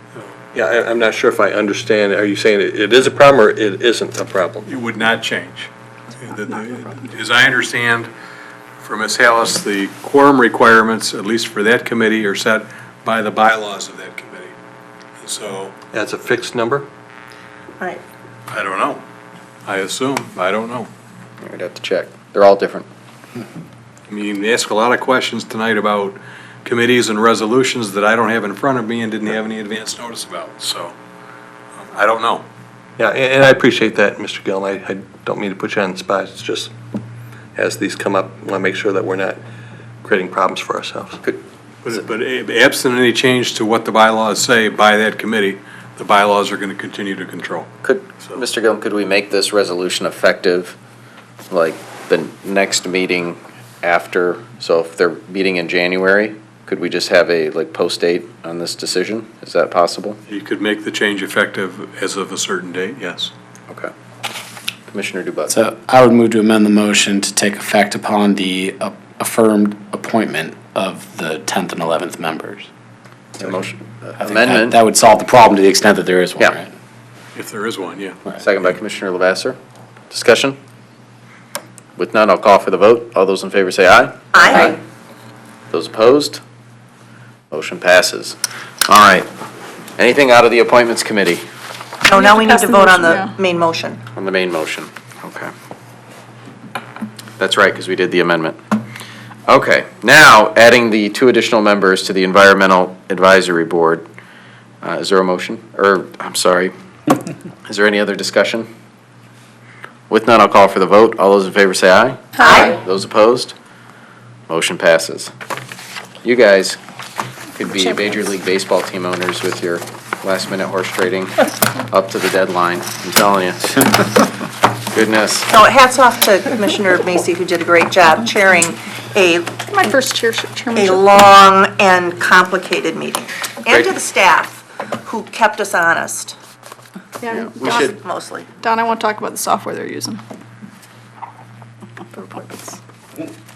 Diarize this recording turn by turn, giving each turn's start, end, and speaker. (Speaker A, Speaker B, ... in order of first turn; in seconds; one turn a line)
Speaker A: 0.5-4.7
Speaker B: 4.7-8.1
Speaker B: 8.8-14.5
Speaker B: 15.2-15.8
Speaker A: 15.9-16.9
Speaker B: 18.5-19.0
Speaker B: 19.7-20.9
Speaker C: 21.4-22.9
Speaker B: 24.1-30.9
Speaker B: 31.8-32.5
Speaker A: 33.0-36.7
Speaker A: 37.6-39.4
Speaker A: 40.0-41.2
Speaker B: 41.9-47.7
Speaker C: 47.8-50.8
Speaker C: 51.5-60.2
Speaker B: 60.3-63.3
Speaker C: 64.9-65.6
Speaker D: 65.5-72.7
Speaker C: 73.4-74.8
Speaker D: 74.2-76.7
Speaker B: 77.3-78.2
Speaker C: 78.4-79.6
Speaker C: 80.1-80.6
Speaker C: 82.0-84.8
Speaker E: 84.3-84.8
Speaker C: 85.7-86.4
Speaker C: 87.5-89.3
Speaker C: 90.0-91.4
Speaker E: 92.1-94.0
Speaker F: 92.1-93.3
Speaker C: 94.1-95.5
Speaker C: 97.4-98.6
Speaker C: 99.5-104.0
Speaker C: 104.8-106.7
Speaker C: 107.7-108.7
Speaker C: 110.1-113.5
Speaker E: 112.4-112.8
Speaker C: 114.5-115.3
Speaker C: 116.2-116.8
Speaker C: 117.6-124.0
Speaker C: 124.9-125.5
Speaker E: 125.5-129.7
Speaker F: 129.7-131.0
Speaker E: 130.8-136.4
Speaker F: 137.2-138.0
Speaker C: 137.3-137.9
Speaker E: 138.0-138.5
Speaker F: 138.6-140.2
Speaker F: 142.1-142.8